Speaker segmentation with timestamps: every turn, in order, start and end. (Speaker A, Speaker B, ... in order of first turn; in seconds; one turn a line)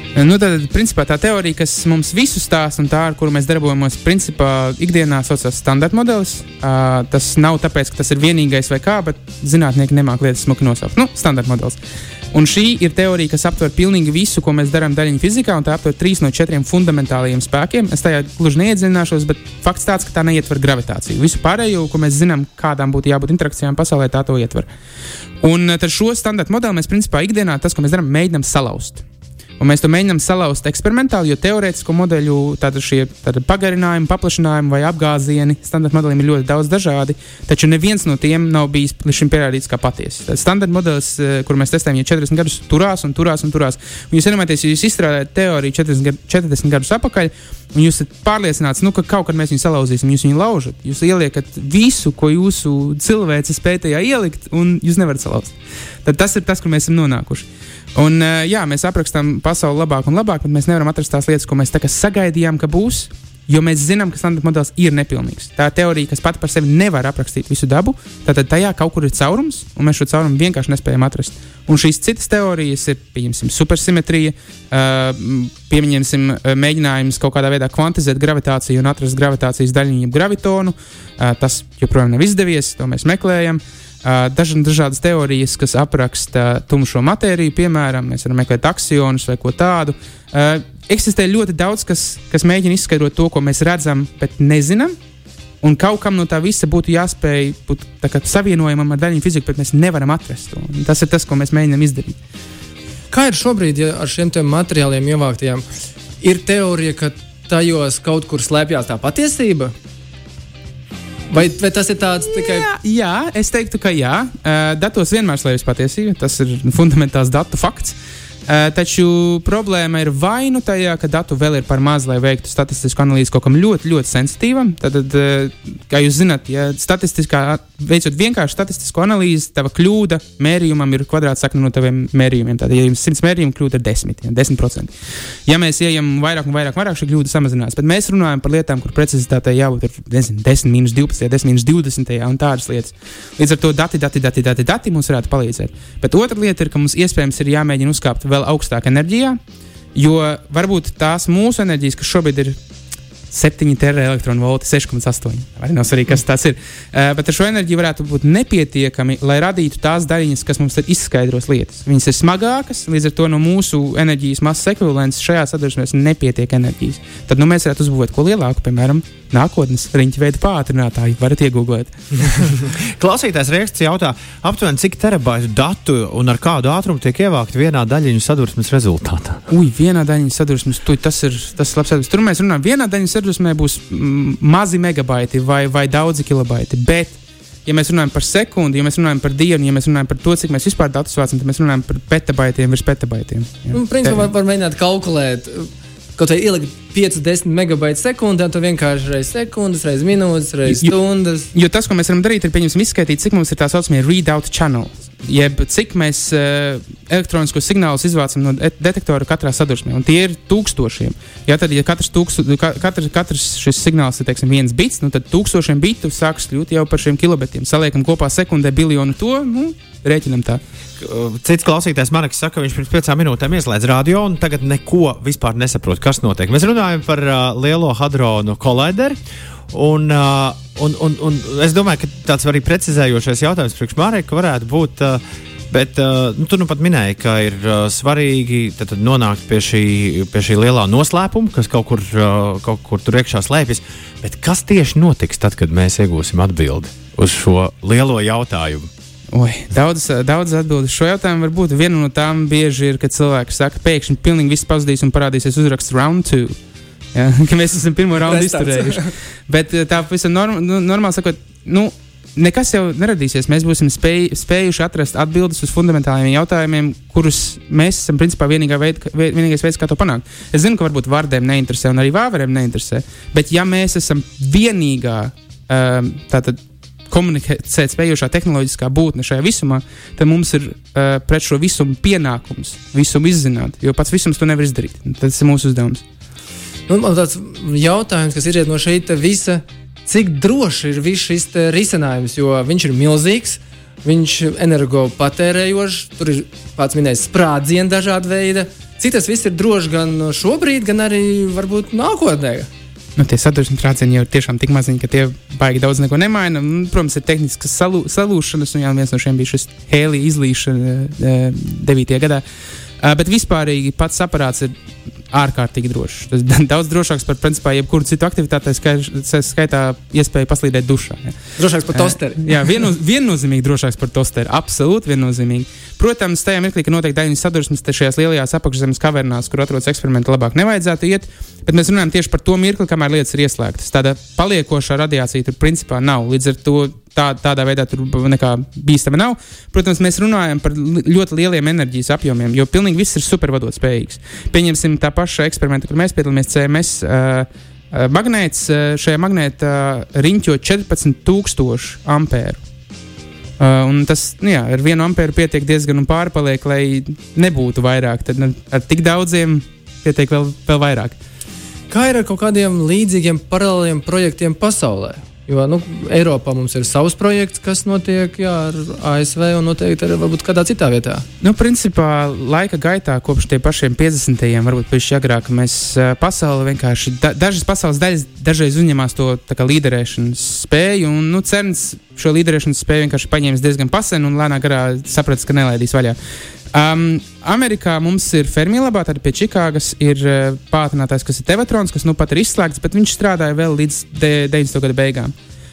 Speaker A: 0.1-11.8
Speaker A: 12.3-24.7
Speaker A: 25.4-29.0
Speaker A: 29.6-55.5
Speaker A: 56.0-94.9
Speaker A: 95.6-102.2
Speaker B: 103.1-105.6
Speaker B: 106.2-109.7
Speaker B: 111.3-112.7
Speaker A: 112.3-118.0
Speaker A: 118.5-134.9
Speaker A: 135.5-149.4
Speaker A: 149.9-152.6
Speaker A: 153.3-172.4
Speaker C: 172.6-179.4
Speaker A: 179.5-194.3
Speaker B: 193.7-201.5
Speaker A: 200.7-200.9
Speaker A: 201.5-220.6
Speaker C: 221.0-229.2
Speaker C: 229.7-248.9
Speaker A: 249.3-256.6
Speaker A: 257.1-276.6
Speaker B: 258.2-259.1
Speaker A: 277.1-286.0
Speaker B: 286.9-302.7
Speaker A: 303.1-312.4
Speaker A: 313.0-314.7
Speaker A: 315.3-321.4
Speaker B: 321.6-322.7
Speaker A: 321.9-352.6
Speaker A: 353.6-361.2
Speaker B: 361.9-371.2
Speaker A: 371.4-386.2
Speaker A: 386.7-395.3